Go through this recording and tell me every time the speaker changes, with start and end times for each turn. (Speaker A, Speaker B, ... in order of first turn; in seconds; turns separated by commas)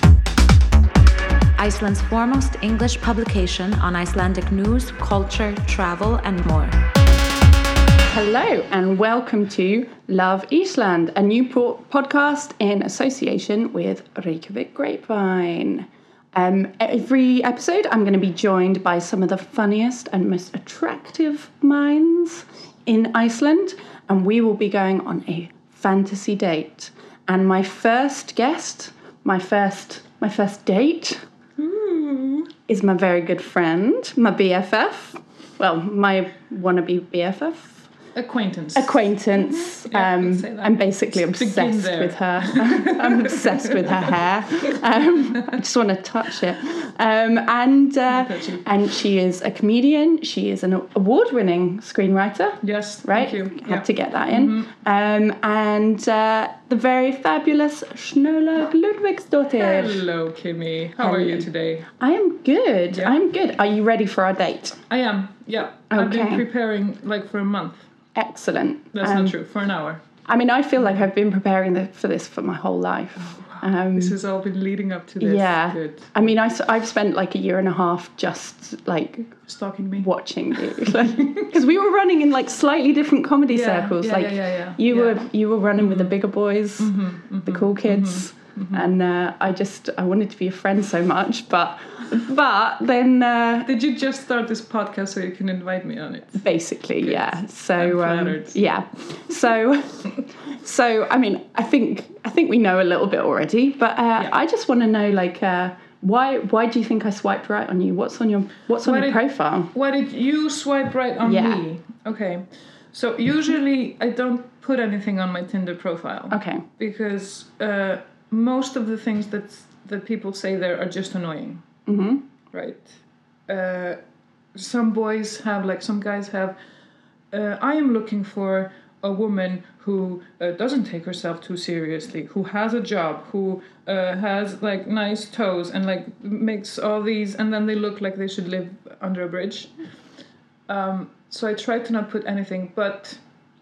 Speaker A: 1.6-6.8, Speaker B: 8.0-31.2, Speaker C: 31.6-32.5, Speaker B: 32.7-37.9, Speaker C: 38.1-45.6, Speaker B: 38.7-60.0, Speaker C: 48.1-48.7, Speaker C: 52.6-54.7, Speaker C: 59.5-61.9, Speaker B: 61.0-64.8, Speaker C: 64.9-67.8, Speaker B: 65.9-66.4, Speaker B: 68.1-69.4, Speaker C: 68.9-70.0, Speaker B: 70.2-74.2, Speaker C: 73.3-76.2, Speaker B: 75.2-79.3, Speaker C: 79.5-80.1, Speaker B: 80.0-93.7, Speaker C: 80.8-81.5, Speaker C: 83.5-85.2, Speaker C: 85.8-86.1, Speaker C: 86.8-88.8, Speaker C: 93.6-96.4, Speaker B: 96.4-109.7, Speaker C: 97.0-98.6, Speaker C: 108.8-121.6, Speaker B: 111.2-111.6, Speaker B: 116.3-116.6, Speaker B: 121.8-122.2, Speaker C: 122.5-124.0, Speaker C: 124.5-126.5, Speaker C: 127.3-139.7, Speaker C: 140.7-143.2